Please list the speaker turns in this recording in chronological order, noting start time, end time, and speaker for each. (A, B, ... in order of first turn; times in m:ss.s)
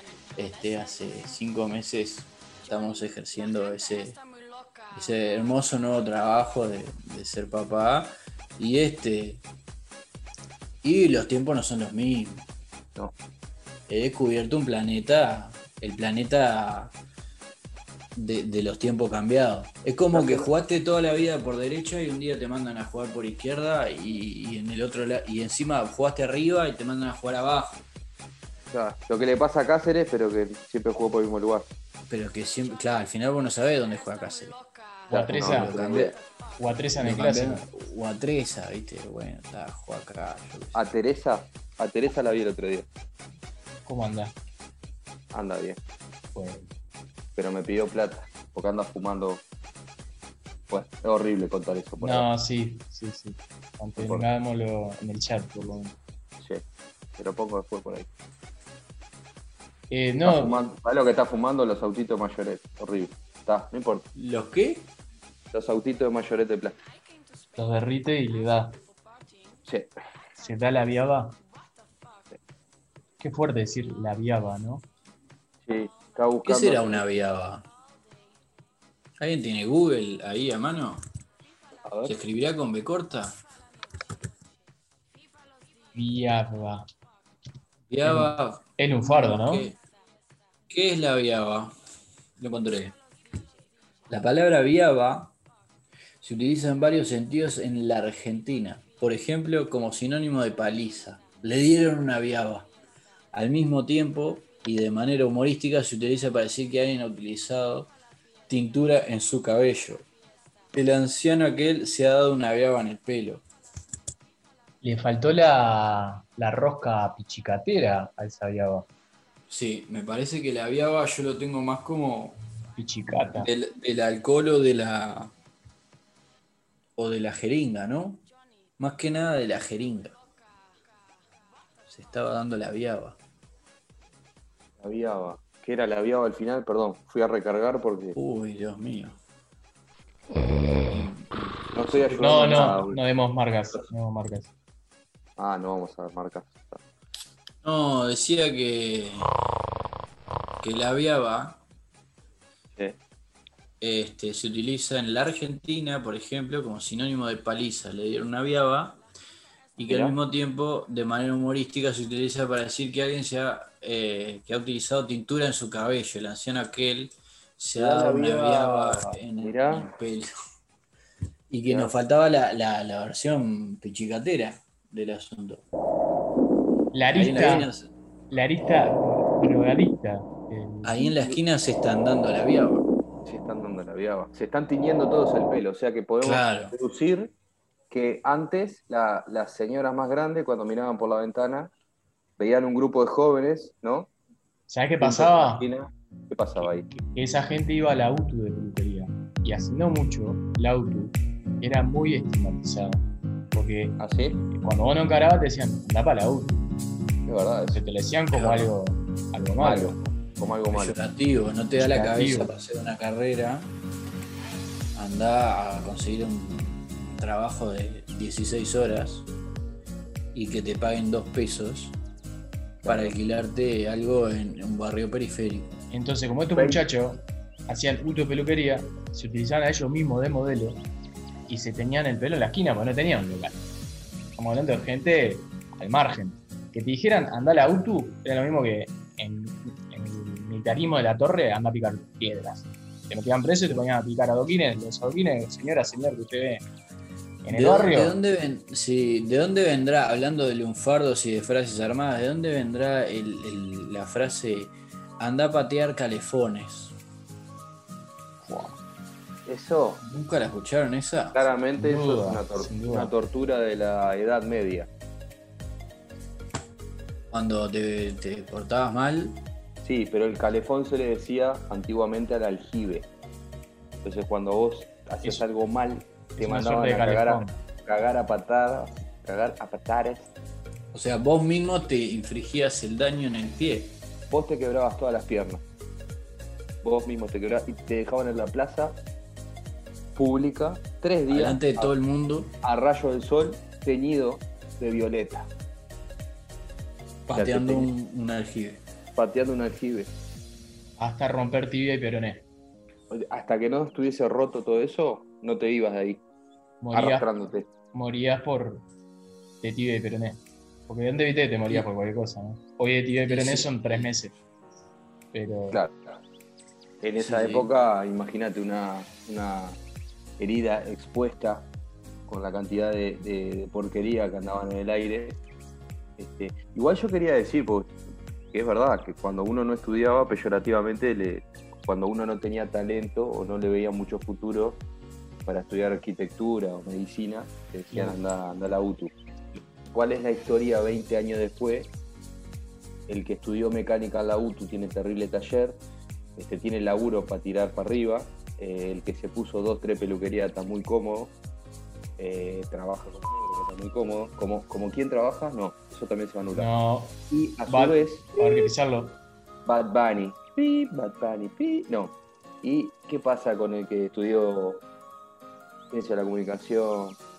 0:00.4-0:04.2 A
0:04.9-0:09.4 A
0:10.8-0:12.4 A
0:13.9-0:16.9 A
0:18.2-0:27.8 A
0:20.1-0:20.5 B
0:28.7-0:31.7 B
0:32.1-0:34.6 A
0:35.1-0:36.2 B
0:35.1-0:35.8 C
0:35.3-0:36.2 A
0:36.6-0:37.6 C
0:37.0-0:40.8 A
0:40.8-0:42.9 B
0:43.9-0:44.3 C
0:45.3-0:45.8 B
0:46.4-0:46.7 C
0:47.4-0:49.4 B
0:50.7-0:52.3 B
0:52.0-0:56.0 C
0:54.0-0:54.3 B
0:57.2-0:58.1 B
0:59.9-1:00.6 C
1:00.2-1:04.1 B
1:04.2-1:04.9 A
1:05.5-1:06.8 B
1:07.6-1:08.8 C
1:10.4-1:11.4 C
1:13.2-1:14.8 C
1:15.6-1:17.0 B
1:16.4-1:17.7 A
1:19.2-1:21.0 A
1:21.8-1:22.2 B
1:22.0-1:23.4 A
1:25.9-1:26.9 C
1:27.9-1:29.8 A
1:28.0-1:29.7 C
1:30.7-1:31.7 A
1:32.4-1:33.0 A
1:34.1-1:35.4 A
1:36.2-1:42.7 A
1:43.3-1:47.9 A
1:48.5-1:50.1 A
1:50.7-1:53.4 A
1:54.8-1:58.9 C
1:59.5-2:02.4 A
2:02.8-2:03.5 C
2:03.4-2:05.3 A
2:07.0-2:08.3 A
2:08.8-2:10.2 A
2:11.9-2:13.2 A
2:14.8-2:18.2 B
2:18.2-2:19.2 A
2:20.9-2:22.8 A
2:21.7-2:23.0 B
2:22.2-2:24.5 C
2:25.4-2:26.8 B
2:27.6-2:29.3 A
2:30.6-2:31.6 A
2:33.8-2:39.0 A
2:39.8-2:50.3 A
2:39.9-2:40.2 B
2:47.8-2:49.9 B
2:51.5-2:55.6 A
2:51.7-2:51.9 B
2:56.9-2:57.7 C
2:57.1-2:57.9 A
2:58.3-3:01.2 C
3:00.8-3:02.9 A
3:03.2-3:07.3 B
3:06.2-3:06.7 A
3:07.9-3:11.7 B
3:12.4-3:14.1 B
3:14.7-3:15.7 C
3:15.0-3:16.9 B
3:17.1-3:23.0 C
3:23.5-3:24.0 C
3:24.0-3:24.4 B
3:24.5-3:26.6 C
3:27.3-3:27.8 B
3:27.7-3:30.0 C
3:28.3-3:28.7 A
3:29.6-3:31.0 B
3:30.7-3:33.7 A
3:31.8-3:32.5 C
3:35.0-3:39.3 A
3:40.3-3:42.0 A
3:42.8-3:43.2 B
3:42.8-3:45.7 A
3:45.9-3:50.8 C
3:46.5-3:46.8 B
3:51.5-3:53.6 C
3:54.4-4:06.6 C
4:07.4-4:08.2 C
4:07.5-4:17.0 A
4:18.4-4:18.8 C
4:19.5-4:20.0 B
4:20.0-4:21.4 A
4:21.3-4:24.9 B
4:21.8-4:23.1 C
4:27.3-4:29.4 A
4:29.8-4:33.1 B
4:34.0-4:40.3 B
4:36.4-4:37.6 C
4:40.9-4:43.9 A
4:44.3-4:45.6 B
4:46.8-4:49.0 B
4:50.2-4:51.9 B
4:51.3-4:52.5 A
4:52.6-4:55.5 B
4:57.3-4:58.8 A
4:57.4-4:57.9 B
4:59.2-5:00.1 B
5:01.0-5:02.4 C
5:03.1-5:06.2 B
5:06.8-5:07.3 C
5:06.9-5:07.7 B
5:07.9-5:08.8 C
5:09.6-5:14.3 C
5:13.3-5:14.1 A
5:15.3-5:15.8 C
5:15.7-5:16.0 B
5:17.0-5:19.8 B
5:17.2-5:17.7 A
5:20.4-5:21.7 B
5:22.3-5:25.4 B
5:26.2-5:28.0 B
5:28.5-5:34.8 B
5:35.5-5:39.1 B
5:37.9-5:38.2 C
5:39.9-5:41.9 B
5:43.1-5:45.8 B
5:46.4-5:51.3 B
5:52.2-5:56.7 B
5:56.5-5:59.2 C
5:57.3-5:58.3 B
5:59.7-6:04.8 B
6:05.9-6:07.2 B